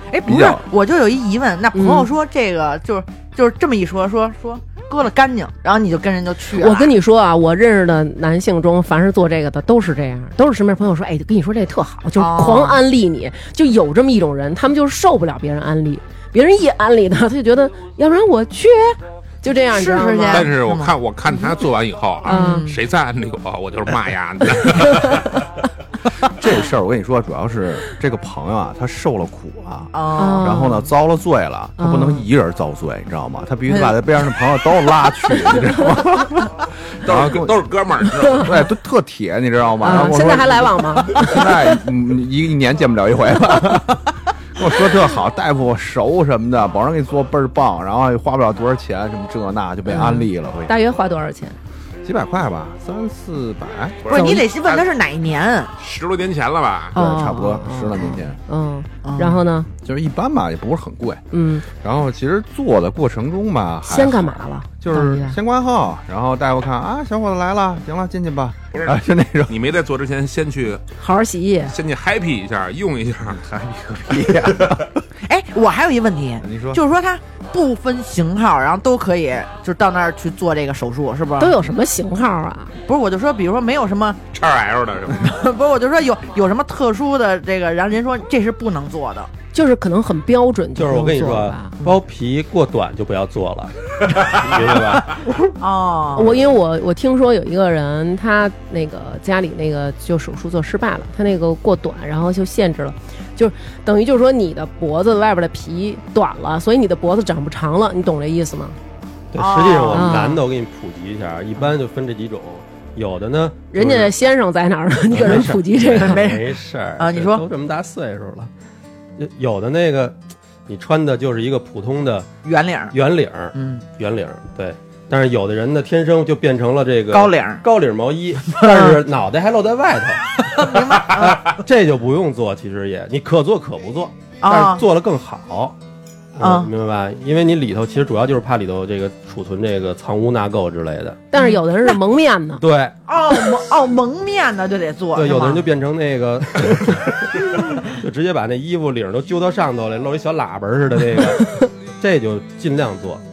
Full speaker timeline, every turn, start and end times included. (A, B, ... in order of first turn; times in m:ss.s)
0:00.1-0:06.9 A
0:00.2-0:00.6 B
0:01.7-0:02.1 C
0:06.6-0:20.5 C
0:12.2-0:12.8 A
0:19.7-0:20.9 A
0:20.3-0:25.4 D
0:22.2-0:22.8 A
0:22.2-0:22.7 C
0:26.3-0:37.6 B
0:29.9-0:30.7 A
0:30.2-0:30.9 C
0:31.8-0:32.2 C
0:37.0-0:38.6 D
0:38.3-0:50.7 B
0:39.8-0:41.8 C
0:49.9-0:51.6 C
0:52.0-0:54.1 B
0:54.0-0:54.8 D
0:54.1-0:55.7 A
0:54.1-0:54.5 C
0:55.8-0:57.0 D
0:56.9-0:58.4 B
0:56.9-0:59.7 C
0:59.0-0:59.4 A
0:59.8-1:09.5 B
1:01.3-1:01.6 C
1:03.8-1:05.4 C
1:08.7-1:10.8 D
1:11.0-1:11.7 C
1:11.7-1:13.4 D
1:13.4-1:14.9 B
1:14.2-1:14.8 D
1:15.3-1:21.6 A
1:16.4-1:16.8 B
1:21.4-1:22.8 C
1:22.8-1:24.2 A
1:24.3-1:25.4 D
1:25.2-1:29.3 A
1:29.5-1:31.8 C
1:30.8-1:35.3 E
1:35.1-1:36.4 A
1:36.1-1:48.8 C
1:49.3-1:54.1 E
1:49.4-1:50.2 A
1:49.9-1:50.4 C
1:53.7-1:56.2 C
1:55.1-1:58.5 E
1:55.9-1:57.4 A
1:59.2-2:02.3 E
2:02.4-2:03.0 A
2:02.9-2:15.8 E
2:03.5-2:03.8 A
2:07.1-2:07.6 A
2:08.6-2:09.0 A
2:10.4-2:11.6 A
2:14.4-2:14.8 A
2:16.3-2:21.2 E
2:16.4-2:16.7 A
2:21.3-2:22.6 C
2:22.6-2:23.0 E
2:23.1-2:25.6 A
2:25.1-2:31.5 E
2:32.0-2:33.2 E